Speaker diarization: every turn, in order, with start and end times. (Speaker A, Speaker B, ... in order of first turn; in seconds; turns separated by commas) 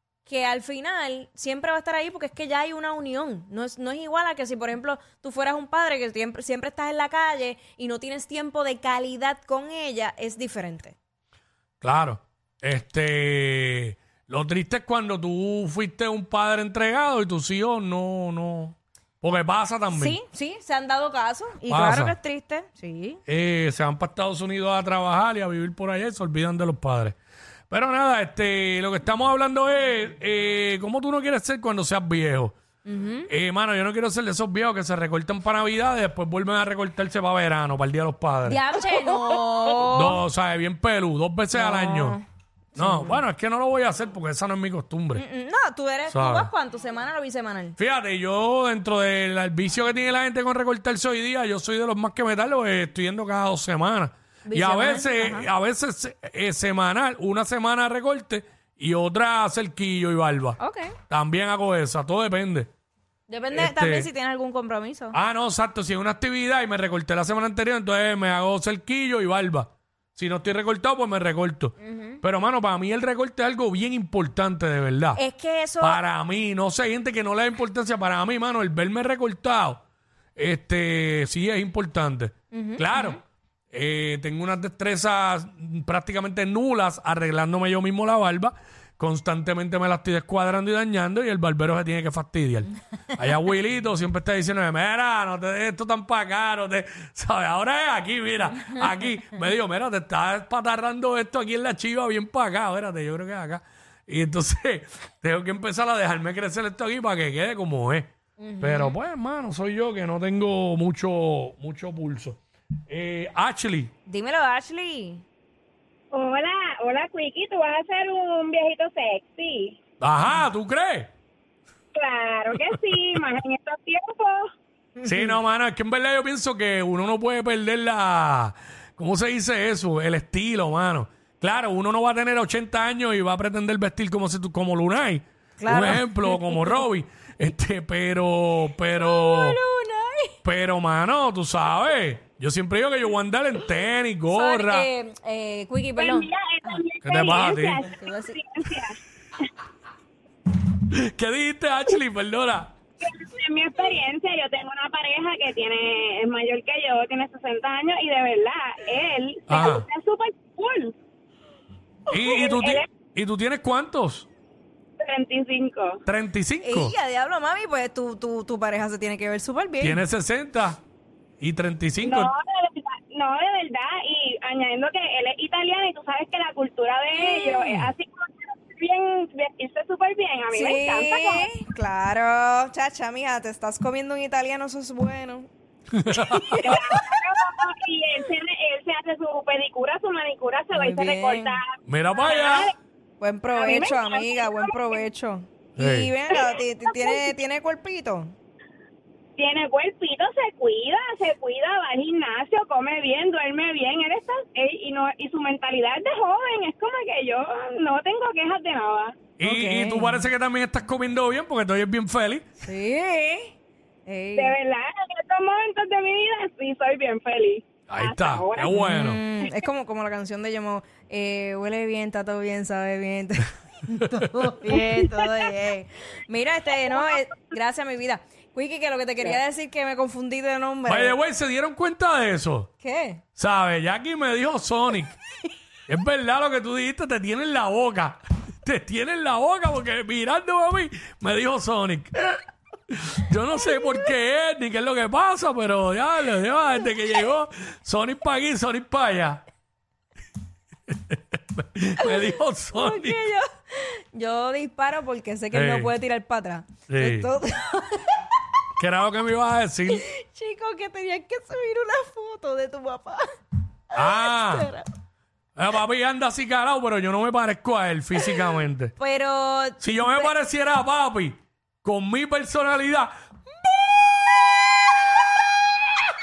Speaker A: 0.2-10.9, Speaker B: 11.8-20.2, Speaker A: 19.9-23.2, Speaker B: 21.7-22.2, Speaker B: 23.3-27.1, Speaker B: 27.7-32.5, Speaker A: 32.8-33.3, Speaker B: 33.3-38.6, Speaker A: 38.4-40.2, Speaker B: 39.9-42.2, Speaker A: 41.5-43.2, Speaker B: 42.7-45.2, Speaker A: 45.1-47.8, Speaker B: 46.1-46.5, Speaker B: 47.8-60.6, Speaker A: 54.4-55.5, Speaker A: 60.6-61.0, Speaker B: 61.1-62.7, Speaker A: 63.3-65.2, Speaker B: 63.5-64.1, Speaker B: 65.1-75.2, Speaker A: 71.8-72.2, Speaker A: 75.1-76.0, Speaker B: 75.8-79.8, Speaker B: 80.3-83.2, Speaker A: 82.5-83.2, Speaker B: 83.7-108.1, Speaker A: 108.4-109.0, Speaker B: 108.6-113.9, Speaker A: 114.0-115.2, Speaker C: 116.1-119.8, Speaker B: 120.0-121.1, Speaker C: 121.9-124.4, Speaker A: 125.0-125.3, Speaker B: 125.0-139.6, Speaker A: 135.6-136.8, Speaker A: 138.9-140.3, Speaker B: 140.4-144.9, Speaker A: 144.3-146.8, Speaker C: 146.0-149.0, Speaker B: 147.0-147.9, Speaker A: 147.8-148.4, Speaker B: 150.8-152.7, Speaker C: 153.0-160.9, Speaker B: 159.5-159.8, Speaker B: 162.1-164.3, Speaker C: 162.1-162.9, Speaker C: 165.0-166.0, Speaker B: 166.1-166.9, Speaker A: 166.6-170.0, Speaker B: 169.8-170.8, Speaker B: 171.4-172.3, Speaker C: 172.0-181.5, Speaker A: 177.1-177.9, Speaker A: 180.5-185.5, Speaker B: 185.9-186.7, Speaker A: 186.1-186.7, Speaker C: 186.6-192.8, Speaker A: 190.7-191.6, Speaker B: 191.8-192.7, Speaker A: 193.2-198.3, Speaker C: 193.5-195.0, Speaker B: 195.8-196.1, Speaker C: 196.3-197.3, Speaker C: 199.4-209.2, Speaker B: 209.4-212.4, Speaker A: 209.4-210.3, Speaker A: 212.6-213.5, Speaker A: 214.1-214.5, Speaker C: 214.3-218.8, Speaker B: 217.9-219.2, Speaker A: 218.7-231.2, Speaker B: 224.1-224.5, Speaker B: 230.8-232.7, Speaker A: 232.8-233.2, Speaker B: 233.4-235.2, Speaker B: 235.9-249.4, Speaker B: 250.9-253.3, Speaker A: 252.0-258.2, Speaker B: 255.5-255.9, Speaker B: 256.9-257.3, Speaker B: 258.8-260.0, Speaker A: 259.9-263.3, Speaker A: 263.9-264.9, Speaker B: 263.9-264.7, Speaker B: 265.6-268.9, Speaker A: 269.0-270.3, Speaker B: 269.8-273.1